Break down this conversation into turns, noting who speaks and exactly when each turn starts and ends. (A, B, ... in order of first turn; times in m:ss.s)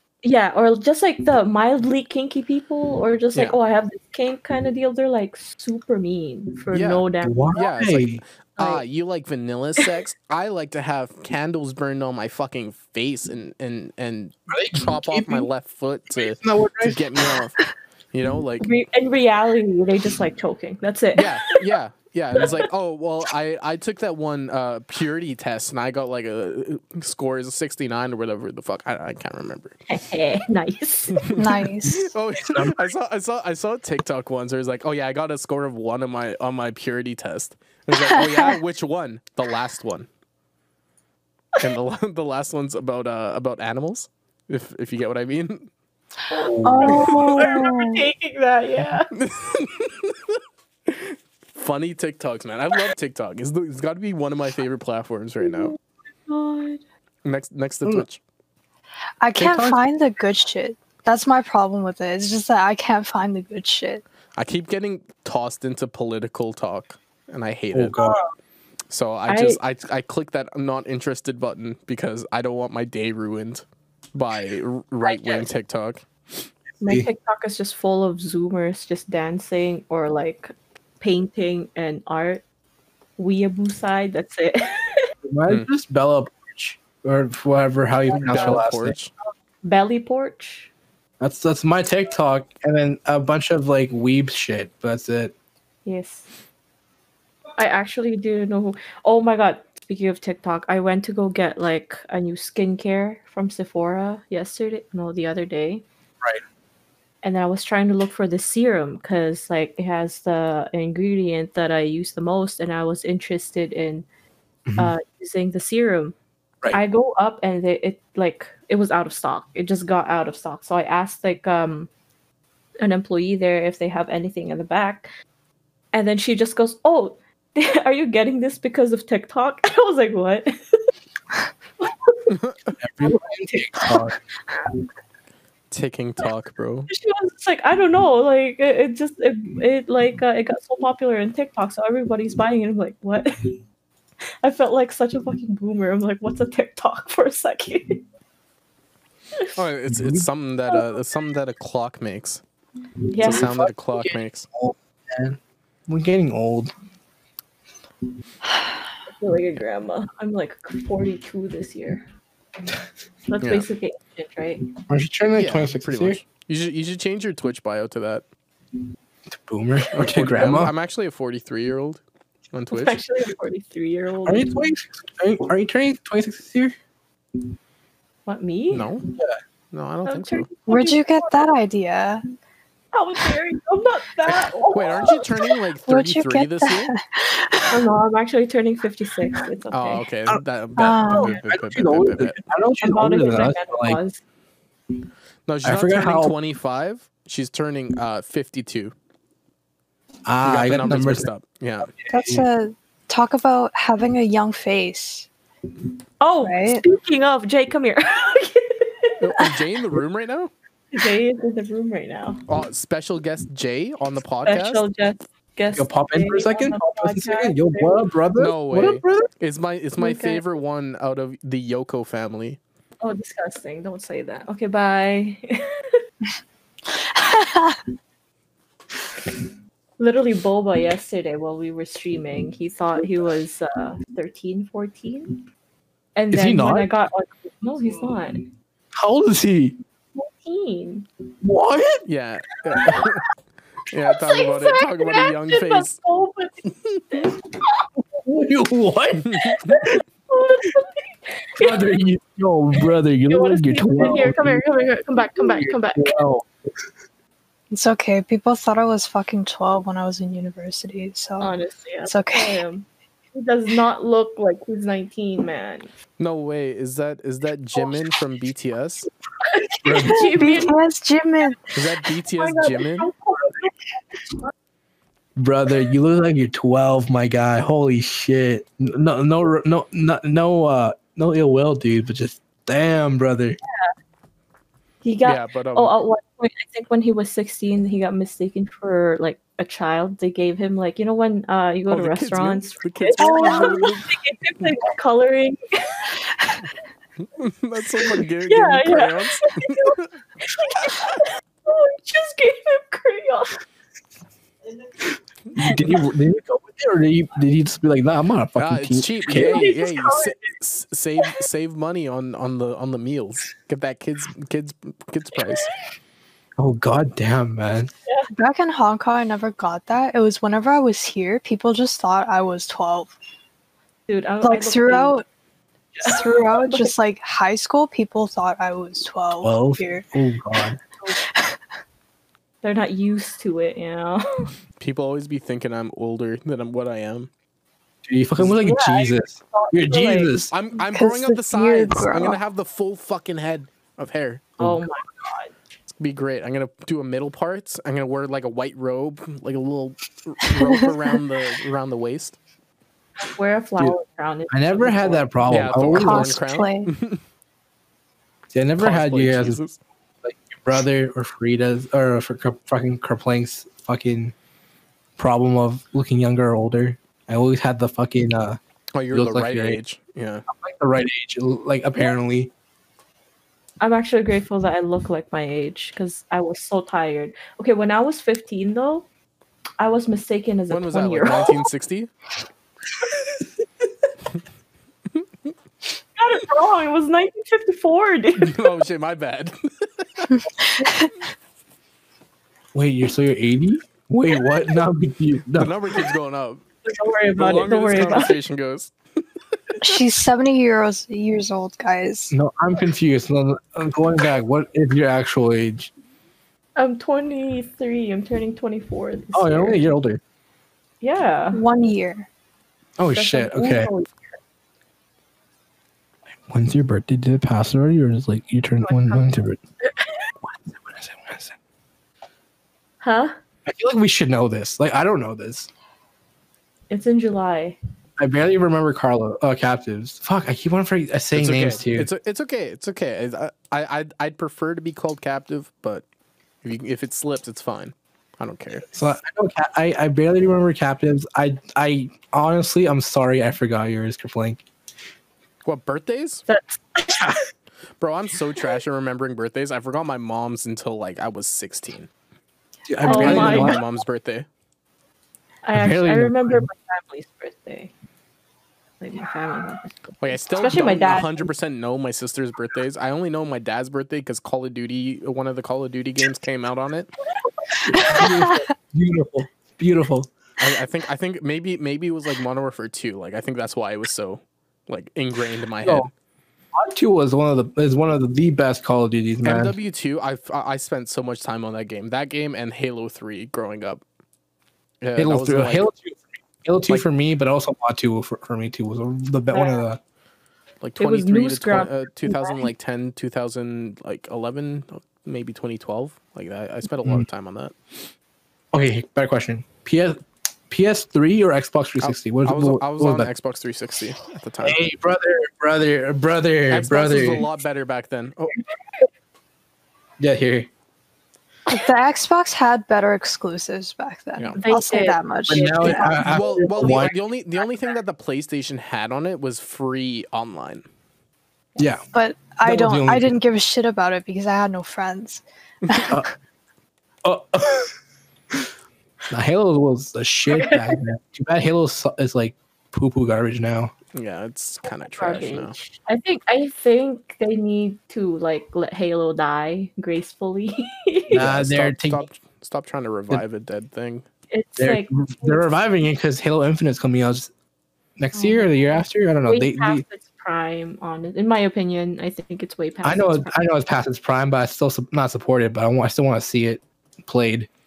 0:00.2-0:07.6 A
0:06.7-0:18.7 B
0:07.2-0:08.2 C
0:08.6-0:08.8 A
0:14.5-0:15.5 C
0:16.2-0:17.0 C
0:18.6-0:21.6 A
0:21.2-0:29.8 B
0:29.9-0:31.3 A
0:31.1-0:40.1 B
0:31.4-0:32.1 D
0:32.4-0:32.9 C
0:41.6-0:45.7 B
0:46.3-0:49.1 A
0:46.5-0:47.1 C
0:46.6-0:48.1 D
0:47.1-0:47.5 B
0:49.1-0:55.7 B
0:55.4-0:56.8 A
0:57.2-0:58.2 B
0:59.2-1:04.0 D
0:59.4-0:59.8 C
1:04.4-1:08.0 B
1:07.7-1:08.2 C
1:08.0-1:08.3 A
1:08.9-1:16.5 B
1:09.3-1:09.6 A
1:15.0-1:15.5 A
1:16.8-1:22.4 A
1:16.8-1:17.1 C
1:23.2-1:25.1 A
1:25.2-1:29.0 C
1:28.1-1:28.6 A
1:28.2-1:29.1 B
1:29.6-1:30.7 A
1:31.2-1:35.3 C
1:35.8-1:36.3 A
1:37.6-1:45.8 A
1:47.2-1:54.1 A
1:54.7-1:54.9 C
1:54.8-1:56.2 A
1:56.7-2:01.9 A
2:02.8-2:05.1 A
2:05.9-2:10.8 A
2:11.8-2:12.3 A
2:12.3-2:12.6 B
2:12.8-2:14.2 C
2:13.0-2:14.0 A
2:15.7-2:16.9 B
2:16.9-2:23.6 A
2:24.4-2:28.0 A
2:29.6-2:32.4 B
2:29.9-2:30.3 C
2:33.1-2:33.5 A
2:33.2-2:36.7 C
2:33.2-2:34.5 B
2:39.1-2:42.0 A
2:43.2-2:44.7 A
2:43.4-2:43.7 B
2:44.9-2:46.2 C
2:45.3-2:48.2 B
2:49.3-2:50.7 C
2:49.9-2:53.0 B
2:52.7-2:54.7 A
2:54.3-2:56.8 C
2:58.3-2:58.9 A
2:58.7-2:59.1 B
2:59.7-3:00.5 B
3:00.0-3:01.4 A
3:00.7-3:02.2 D
3:02.9-3:05.4 A
3:04.7-3:06.9 B
3:05.8-3:07.9 D
3:07.7-3:10.0 A
3:09.7-3:12.4 B
3:10.8-3:11.4 D
3:11.2-3:14.0 C
3:12.8-3:14.2 A
3:15.5-3:18.9 B
3:15.6-3:16.4 C
3:20.3-3:21.3 C
3:20.4-3:21.9 B
3:22.0-3:22.4 C
3:22.1-3:25.3 D
3:26.2-3:29.6 A
3:26.4-3:26.8 D
3:29.2-3:30.5 B
3:30.9-3:32.4 A
3:32.5-3:34.8 B
3:34.4-3:38.1 A
3:35.8-3:39.3 C
3:38.4-3:42.6 B
3:40.0-3:40.4 A
3:43.0-3:46.0 A
3:46.9-3:47.8 D
3:50.0-3:55.4 A
3:56.2-3:58.5 A
3:56.3-3:56.9 C
3:59.0-3:59.8 C
4:00.2-4:01.1 A
4:01.4-4:02.0 C
4:02.0-4:03.3 B
4:03.9-4:06.0 B
4:04.2-4:07.3 A
4:08.0-4:10.0 C
4:09.2-4:09.8 B
4:09.7-4:11.8 A
4:11.6-4:14.6 C
4:13.3-4:16.2 A
4:15.3-4:16.5 C
4:17.7-4:21.5 D
4:21.4-4:25.9 A
4:22.0-4:22.6 D
4:26.2-4:29.1 B
4:29.4-4:30.8 A
4:29.8-4:30.4 C
4:30.0-4:31.6 D
4:31.7-4:33.1 B
4:32.3-4:34.5 A
4:35.4-4:43.6 C
4:45.0-4:56.5 A
4:45.2-4:45.9 B
4:51.9-4:54.7 B
4:53.2-4:53.9 D
4:57.3-5:00.1 B
4:58.5-5:03.6 A
5:05.5-5:09.7 C
5:05.6-5:06.0 B
5:08.6-5:15.7 B
5:09.3-5:10.5 A
5:16.6-5:17.9 C
5:18.4-5:23.1 D
5:24.1-5:25.2 A
5:24.4-5:25.2 D
5:26.0-5:30.0 D
5:26.0-5:26.9 A
5:29.4-5:30.8 C
5:31.2-5:31.6 D
5:32.6-5:34.5 A
5:34.8-5:37.3 B
5:38.1-5:40.5 C
5:38.5-5:40.4 A
5:40.5-5:44.6 B
5:40.9-5:42.4 D
5:44.6-5:45.0 C
5:44.6-5:45.5 A
5:45.9-5:52.4 B
5:53.2-5:55.8 A
5:54.5-5:56.4 C
5:55.5-5:57.2 B
5:55.9-5:56.9 D
5:58.5-5:59.6 C
5:58.8-5:59.8 B
6:00.2-6:04.3 C
6:05.2-6:08.6 C
6:08.9-6:10.4 B
6:09.1-6:09.8 C
6:10.5-6:12.5 C
6:13.8-6:19.1 A
6:19.8-6:21.6 A
6:20.7-6:22.1 B
6:26.2-6:28.6 A
6:28.4-6:30.4 B
6:30.8-6:31.1 D
6:32.7-6:35.7 C
6:35.6-6:36.6 B
6:36.8-6:38.4 A
6:37.4-6:38.9 B
6:39.7-6:40.0 B
6:39.8-6:42.3 D
6:42.3-6:45.9 C
6:46.8-6:49.8 A
6:49.3-6:50.2 C
6:51.0-6:51.6 A
6:51.5-6:52.3 D
6:53.0-6:53.9 C
6:53.1-6:54.4 A
6:56.5-6:59.6 C
6:58.8-6:59.3 A
6:59.8-7:00.3 A
7:00.4-7:01.6 C
7:03.0-7:03.4 A
7:03.7-7:05.7 C
7:06.9-7:07.8 A
7:08.2-7:12.1 C
7:11.3-7:16.0 B
7:16.6-7:18.9 B
7:18.9-7:24.6 C
7:25.6-7:26.4 B
7:26.5-7:27.5 A
7:28.0-7:32.1 B
7:32.9-7:33.8 C
7:33.0-7:33.9 A
7:33.0-7:34.5 B
7:35.6-7:37.9 A
7:35.8-7:36.7 C
7:39.0-7:41.5 A
7:40.2-7:47.1 B
7:47.7-7:48.3 A
7:47.8-7:50.3 C
7:50.6-7:56.1 B
7:55.8-7:56.1 C
7:56.8-7:59.7 C
7:59.4-8:04.0 B
8:05.0-8:05.9 B
8:05.2-8:10.0 C
8:09.5-8:09.8 A
8:10.8-8:18.1 B
8:11.0-8:12.7 A
8:18.7-8:23.3 C
8:22.0-8:24.8 B
8:24.6-8:27.5 C
8:26.7-8:28.6 B
8:30.2-8:30.7 C
8:31.7-8:36.4 D
8:34.6-8:36.4 A
8:35.5-8:37.2 C
8:36.2-8:40.8 B
8:41.8-8:42.0 C
8:42.1-8:46.2 D
8:42.6-8:43.3 C
8:47.2-8:47.9 C
8:49.3-8:53.9 C
8:50.5-8:51.0 A
8:54.1-8:55.8 B
8:54.8-9:01.5 A
9:01.3-9:04.2 B
9:01.3-9:02.2 C
9:04.5-9:05.6 A
9:04.8-9:07.5 C
9:08.2-9:10.0 C
9:08.3-9:13.6 A
9:13.0-9:17.7 C